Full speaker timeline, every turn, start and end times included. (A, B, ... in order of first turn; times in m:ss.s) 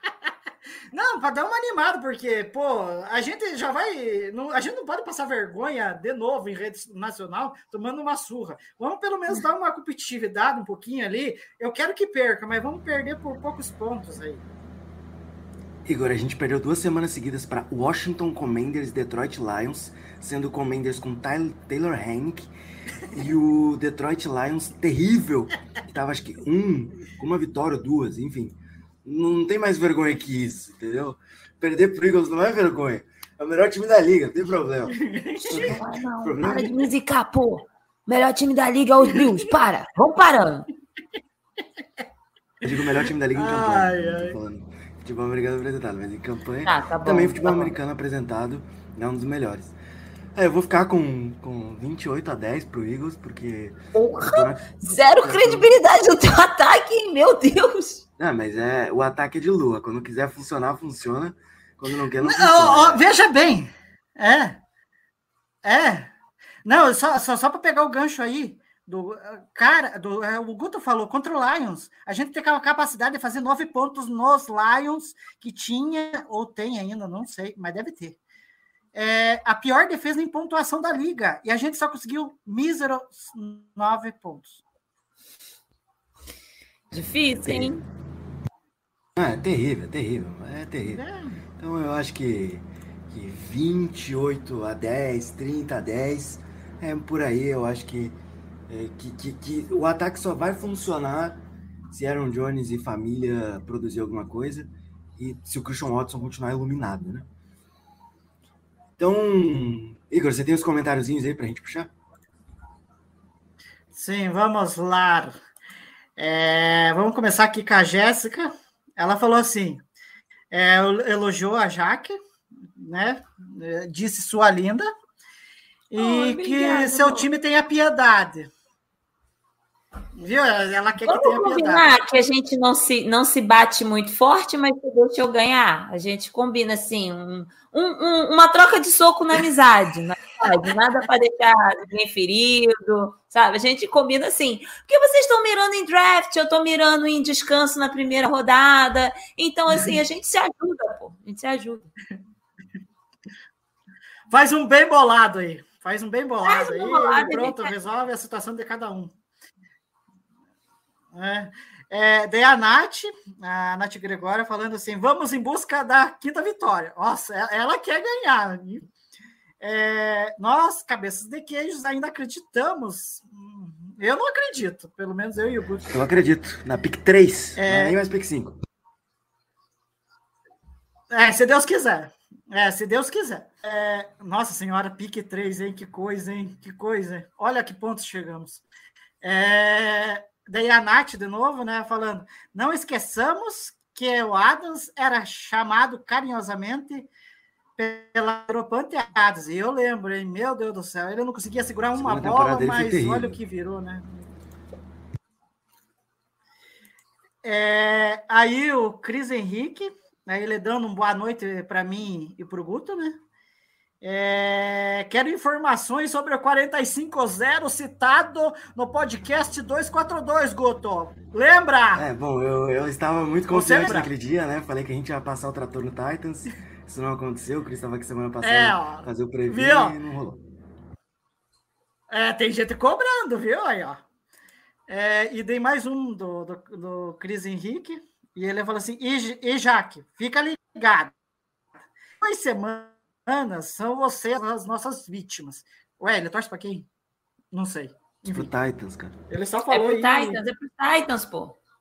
0:00.9-0:14.4 A
0:15.9-0:22.5 B
0:23.1-0:36.8 B
0:34.9-0:35.8 A
0:35.4-0:40.7 C
0:42.6-0:49.8 B
0:43.3-0:44.4 A
0:46.7-0:47.7 C
0:50.4-0:55.7 B
0:54.0-0:58.0 C
0:58.2-1:03.0 B
1:02.2-1:04.6 A
1:05.6-1:06.1 A
1:06.6-1:18.2 A
1:18.9-1:24.6 A
1:26.9-1:27.8 C
1:27.4-1:27.8 B
1:29.2-1:31.0 B
1:30.9-1:31.4 A
1:31.6-1:38.2 B
1:38.7-1:47.3 B
1:49.0-1:51.9 B
1:53.9-1:55.4 A
1:56.2-1:59.8 A
2:00.5-2:02.2 A
2:02.8-2:04.9 A
2:05.9-2:08.5 A
2:06.0-2:07.3 C
2:10.2-2:11.9 A
2:11.0-2:31.9 C
2:34.3-2:39.1 A
2:36.5-2:37.7 C
2:41.1-2:48.9 A
2:49.6-2:55.9 A
2:55.9-2:58.6 B
2:57.6-2:58.0 A
3:01.1-3:08.6 A
3:09.2-3:17.1 A
3:17.8-3:24.1 A
3:21.9-3:23.4 B
3:27.4-3:33.2 A
3:34.0-3:42.1 A
3:42.0-3:50.4 B
3:43.5-3:44.1 A
3:48.4-3:50.0 A
3:52.1-3:54.0 A
3:54.9-4:01.1 A
4:02.2-4:06.9 A
4:07.5-4:08.5 A
4:08.3-4:09.2 B
4:09.3-4:10.4 A
4:09.7-4:11.6 C